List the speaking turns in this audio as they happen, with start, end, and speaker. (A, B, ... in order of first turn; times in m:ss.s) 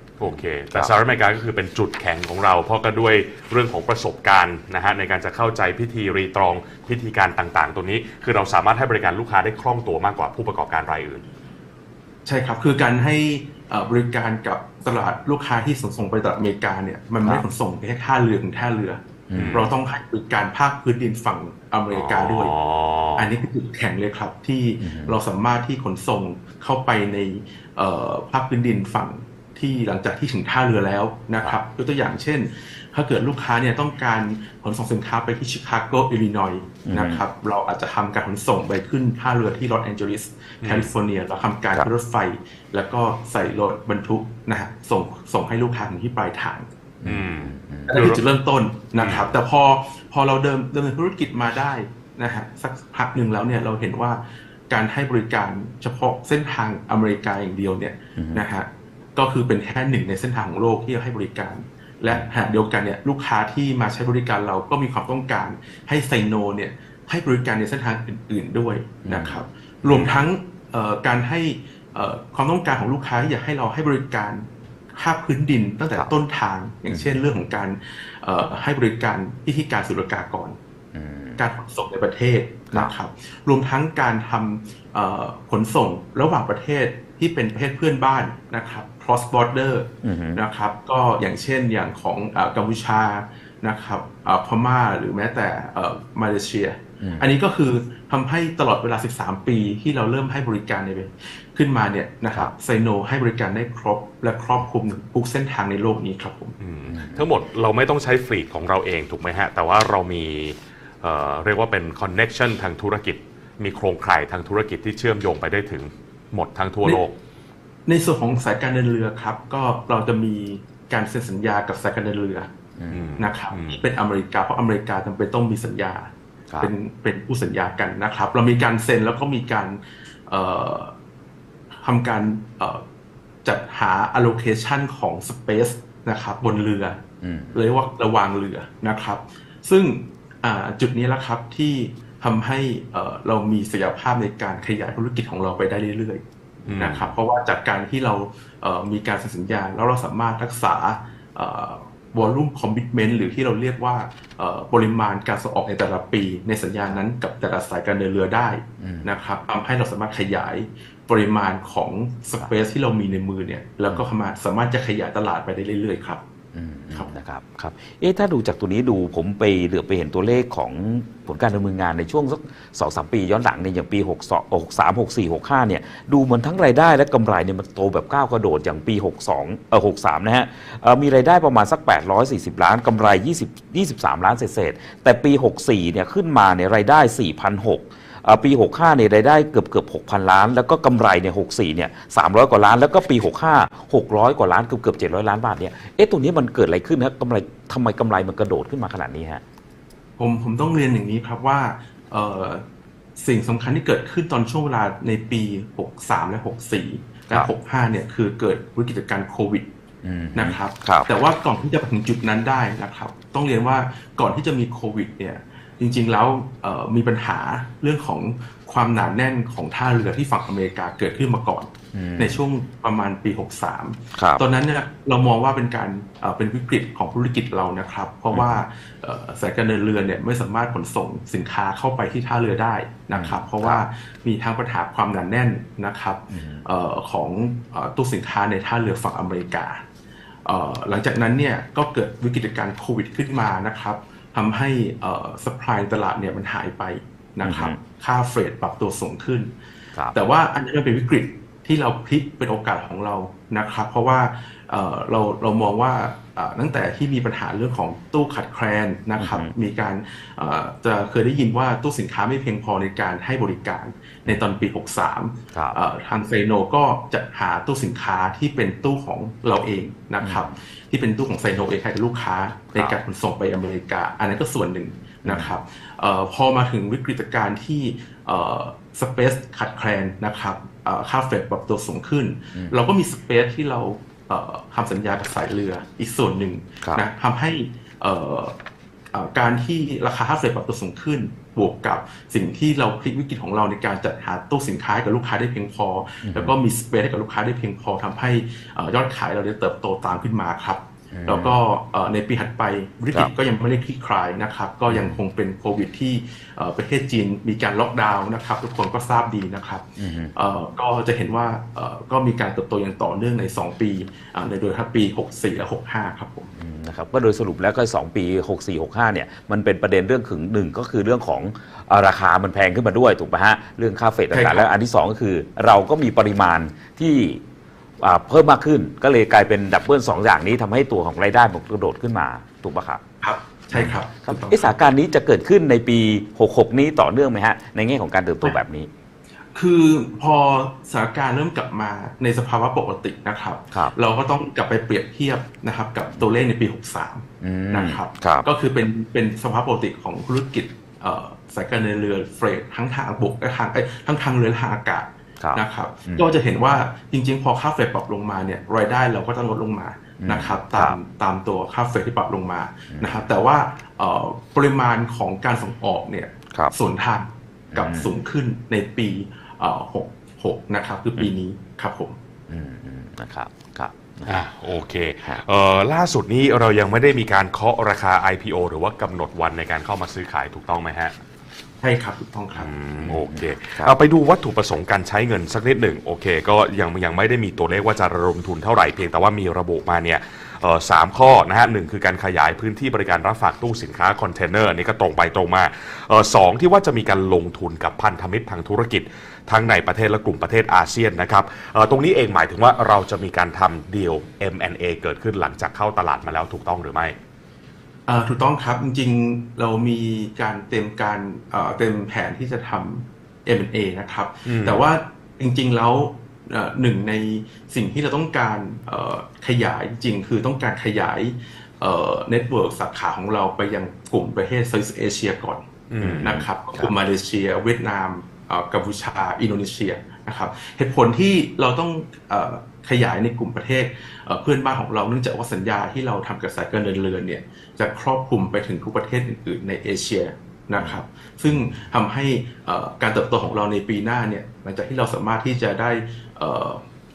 0:00.2-0:11.2 A
0:00.2-0:00.9 B
0:12.2-0:22.5 C
0:19.3-0:19.7 B
0:19.3-0:19.7 A
0:21.9-0:23.3 A
0:23.2-0:46.6 C
0:24.8-0:25.2 B
0:36.8-0:37.2 B
0:40.6-0:40.9 A
0:47.0-0:48.1 B
0:47.0-0:48.2 A
0:47.9-1:20.6 C
0:49.0-0:49.3 A
0:58.2-0:58.4 B
1:09.0-1:09.4 B
1:09.8-1:10.1 A
1:20.9-1:21.4 B
1:21.4-1:46.5 C
1:30.0-1:30.4 B
1:37.0-1:37.2 B
1:46.6-1:57.1 A
1:46.9-1:47.3 B
1:57.9-2:02.5 C
2:02.9-2:03.9 A
2:03.2-2:06.1 C
2:06.6-2:10.9 C
2:11.8-2:12.8 C
2:13.4-2:17.0 C
2:17.2-2:17.5 B
2:17.5-2:26.2 C
2:26.7-2:27.0 A
2:26.8-2:46.2 C
2:38.8-2:39.1 B
2:46.5-3:19.4 B
3:20.2-3:22.6 C
3:23.2-3:29.6 C
3:30.0-3:31.1 B
3:30.3-3:59.8 C
3:41.9-3:42.4 B
3:44.2-3:44.4 B
3:48.3-3:48.6 B
3:53.1-3:53.8 B
3:56.3-3:56.6 B
4:00.4-4:09.5 C
4:07.4-4:07.8 B
4:10.1-4:48.5 C
4:19.2-4:19.5 B
4:30.2-4:30.6 B
4:35.2-4:35.5 B
4:49.1-5:16.5 C
4:56.2-4:56.5 B
5:01.1-5:01.6 B
5:04.9-5:05.2 B
5:10.0-5:10.3 B
5:16.6-5:27.4 B
5:24.3-5:24.7 C
5:28.0-5:33.0 B
5:33.2-5:34.7 C
5:33.7-5:38.9 B
5:39.5-6:12.2 C
5:47.4-5:48.5 B
5:55.4-5:56.3 B
6:00.2-6:01.0 B
6:02.9-6:03.2 B
6:07.7-6:08.1 B
6:12.5-6:14.4 B
6:14.2-6:21.1 A
6:21.8-6:22.7 C
6:22.5-6:47.2 A
6:23.0-6:23.9 B
6:48.1-7:05.6 C
6:54.4-6:54.8 A
7:05.9-7:06.4 A
7:06.0-7:06.5 B
7:06.2-7:26.8 C